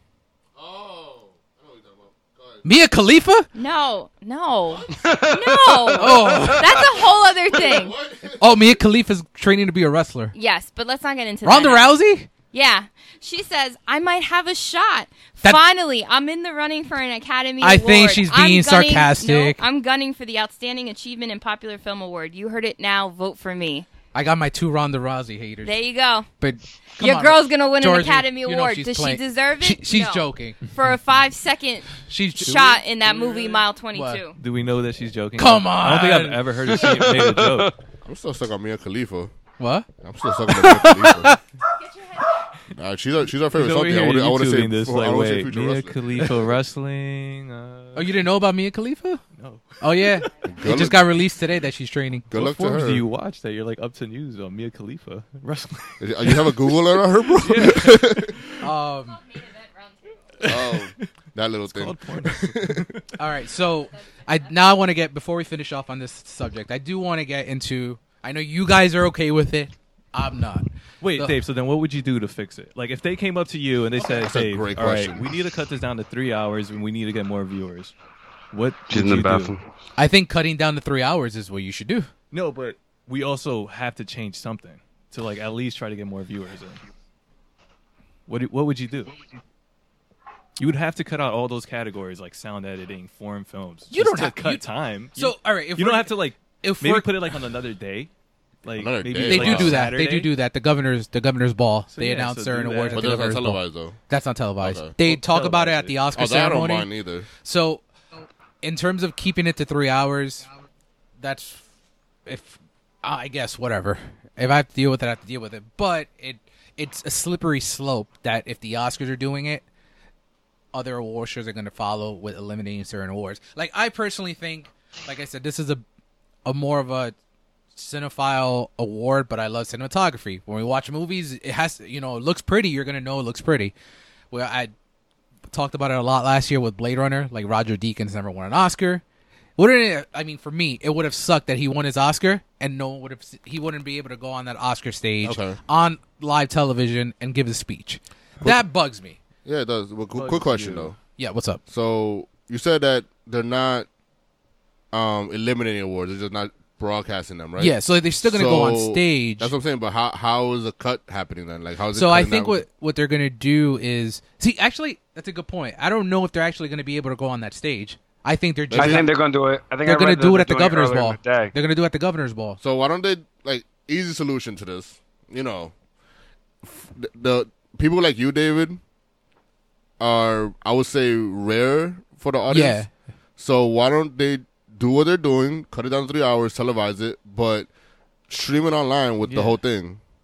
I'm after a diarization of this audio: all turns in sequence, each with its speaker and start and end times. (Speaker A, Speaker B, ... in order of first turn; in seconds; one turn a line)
Speaker A: 0.6-2.6
Speaker B: 2.6-3.5
Speaker C: 3.5-8.0
Speaker D: 5.0-6.8
Speaker B: 6.0-6.8
Speaker A: 7.6-8.5
Speaker B: 8.4-10.3
Speaker C: 10.3-11.9
Speaker B: 11.4-12.3
Speaker C: 12.5-23.9
Speaker B: 17.6-19.6
Speaker B: 24.1-25.8
Speaker C: 25.6-26.3
Speaker B: 26.4-30.6
Speaker C: 27.0-34.4
Speaker B: 32.1-32.6
Speaker E: 33.1-33.6
Speaker B: 33.9-34.2
Speaker E: 34.4-37.7
Speaker B: 35.4-36.4
Speaker A: 38.0-39.3
Speaker B: 39.6-39.9
Speaker A: 40.0-41.3
Speaker B: 40.5-41.4
Speaker A: 42.7-46.0
Speaker E: 43.5-48.2
Speaker B: 47.9-49.2
Speaker E: 49.3-50.2
Speaker B: 49.8-52.3
Speaker A: 50.5-51.0
Speaker A: 52.3-53.0
Speaker E: 52.3-58.5
Speaker A: 56.0-58.5
Speaker B: 58.6-59.2
Speaker E: 60.4-61.1
Speaker A: 60.4-62.9
Speaker E: 61.7-63.1
Speaker B: 63.2-71.4
Speaker E: 71.0-77.9
Speaker A: 74.0-75.3
Speaker E: 78.5-79.5
Speaker D: 78.9-79.6
Speaker B: 80.0-82.1
Speaker E: 82.3-86.8
Speaker E: 88.3-89.2
Speaker E: 90.6-98.1
Speaker B: 93.9-94.6
Speaker B: 95.1-97.3
Speaker E: 98.6-100.3
Speaker A: 98.8-99.8
Speaker B: 99.2-107.8
Speaker E: 101.9-103.3
Speaker A: 102.9-104.0
Speaker A: 104.6-104.9
Speaker E: 105.0-106.0
Speaker A: 106.1-107.3
Speaker B: 108.6-110.5
Speaker B: 111.2-111.6
Speaker B: 112.2-119.6
Speaker B: 120.7-125.8
Speaker B: 126.4-127.1
Speaker B: 127.7-133.7
Speaker B: 134.3-134.7
Speaker B: 135.5-139.0
Speaker B: 139.6-149.2
Speaker A: 145.2-145.6
Speaker A: 149.4-150.9
Speaker E: 150.1-150.9
Speaker B: 151.2-151.6
Speaker A: 151.7-153.9
Speaker A: 154.9-162.6
Speaker B: 157.6-159.5
Speaker B: 161.9-169.1
Speaker A: 168.7-169.1
Speaker D: 168.8-171.5
Speaker B: 169.8-172.6
Speaker A: 172.6-175.7
Speaker A: 176.6-178.8
Speaker A: 180.0-182.8
Speaker B: 182.5-182.9
Speaker A: 183.4-187.7
Speaker A: 188.3-190.0
Speaker E: 189.2-189.6